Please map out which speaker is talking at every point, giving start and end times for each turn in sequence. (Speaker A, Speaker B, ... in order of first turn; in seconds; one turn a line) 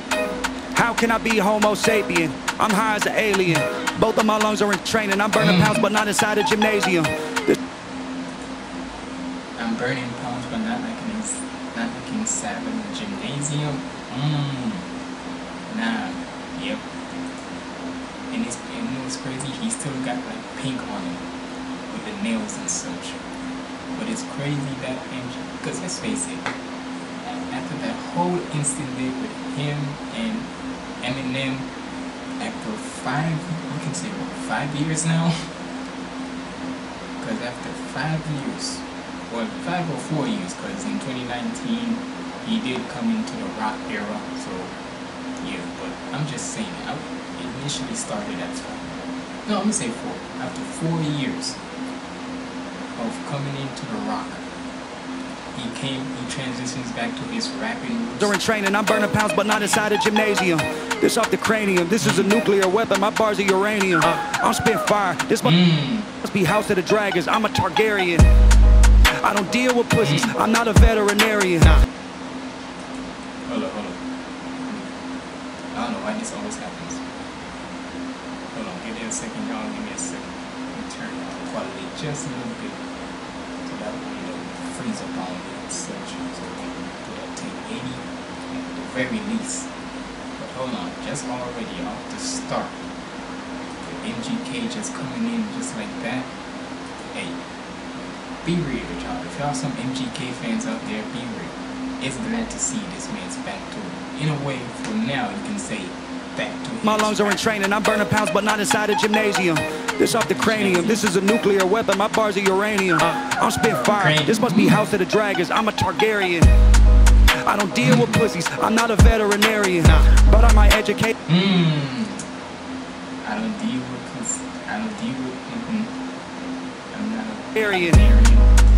Speaker A: 0.8-7.6
Speaker B: 5.4-5.9
Speaker B: 9.6-14.9
Speaker B: 15.7-16.9
Speaker B: 18.3-21.2
Speaker B: 21.9-23.2
Speaker B: 23.9-26.5
Speaker B: 27.2-30.5
Speaker B: 31.0-31.7
Speaker B: 32.4-35.5
Speaker B: 37.2-44.8
Speaker B: 45.4-51.6
Speaker B: 53.0-54.4
Speaker B: 55.5-58.4
Speaker A: 58.2-65.6
Speaker B: 59.6-59.8
Speaker B: 62.0-62.3
Speaker B: 65.4-66.1
Speaker A: 66.2-68.2
Speaker A: 69.2-71.8
Speaker B: 70.0-70.3
Speaker B: 73.5-74.0
Speaker B: 75.7-77.0
Speaker B: 78.5-82.8
Speaker B: 83.7-89.7
Speaker B: 90.4-92.8
Speaker B: 93.8-96.3
Speaker B: 98.4-107.5
Speaker A: 106.8-116.5
Speaker B: 110.3-111.0
Speaker B: 113.6-114.8
Speaker A: 117.5-121.1
Speaker B: 117.8-118.3
Speaker B: 121.3-122.2
Speaker B: 123.2-125.9
Speaker B: 126.9-128.5
Speaker A: 127.5-128.1